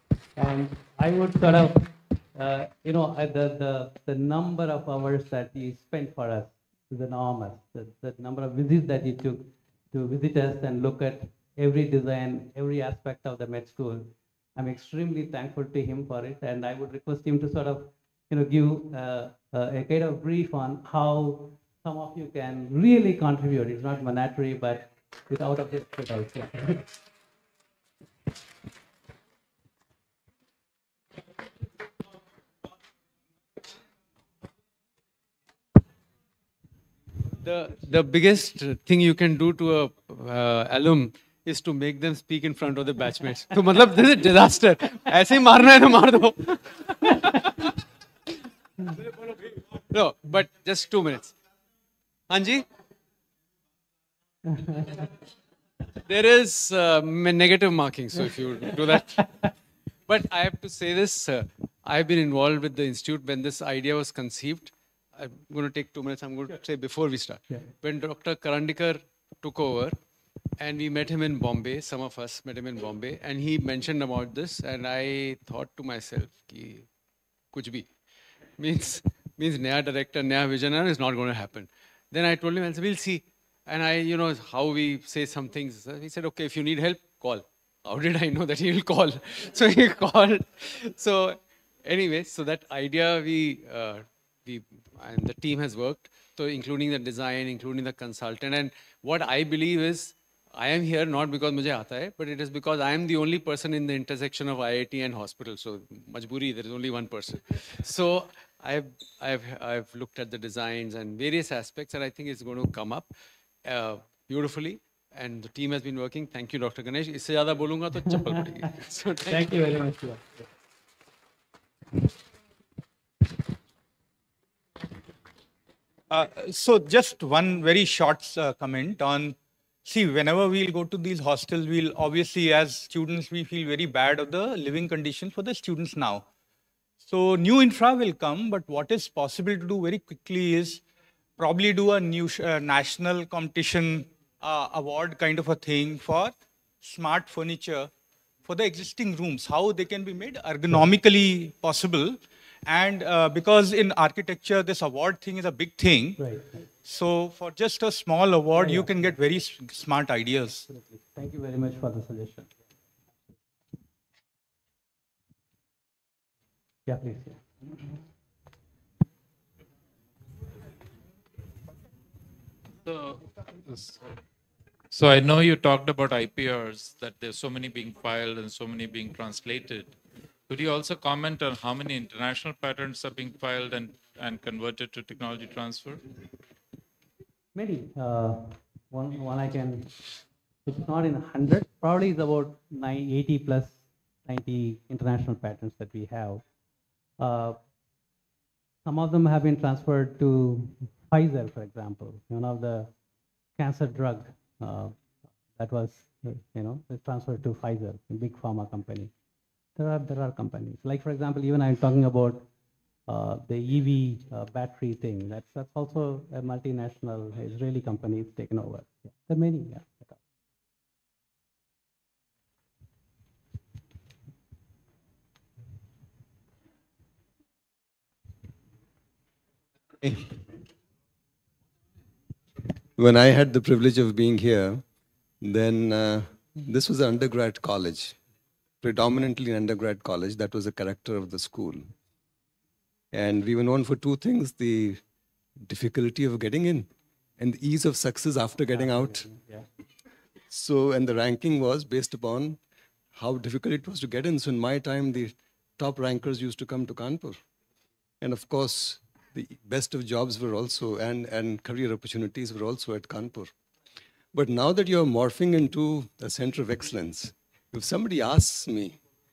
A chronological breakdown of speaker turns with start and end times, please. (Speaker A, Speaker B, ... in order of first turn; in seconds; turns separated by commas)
Speaker A: 0.4-26.9, Speaker B: 37.4-47.5, Speaker B: 49.9-51.4, Speaker B: 52.3-52.6, Speaker A: 54.5-55.1, Speaker B: 56.0-59.3, Speaker A: 59.1-59.5, Speaker B: 60.1-70.0, Speaker B: 70.6-76.9, Speaker B: 77.5-77.9, Speaker B: 78.6-113.1, Speaker B: 113.6-119.5, Speaker A: 119.2-120.5, Speaker C: 126.1-136.2, Speaker C: 137.0-140.8, Speaker C: 141.4-147.9, Speaker C: 148.4-156.2, Speaker A: 156.2-156.6, Speaker C: 156.8-160.7, Speaker A: 158.6-159.2, Speaker A: 160.7-162.5, Speaker A: 166.9-167.7, Speaker D: 172.8-174.0, Speaker D: 174.9-180.0, Speaker D: 180.5-186.1, Speaker A: 187.5-190.1, Speaker A: 190.7-196.4, Speaker A: 197.2-197.6, Speaker A: 198.8-202.9, Speaker A: 203.6-205.0, Speaker A: 205.5-209.1, Speaker A: 209.8-212.5, Speaker A: 213.1-220.2, Speaker E: 233.0-234.8, Speaker E: 235.4-238.2, Speaker E: 238.8-241.9, Speaker E: 243.1-245.0, Speaker E: 245.6-249.3, Speaker A: 248.7-249.7, Speaker E: 250.5-252.6, Speaker E: 253.1-257.4, Speaker E: 258.2-263.5, Speaker E: 264.3-269.0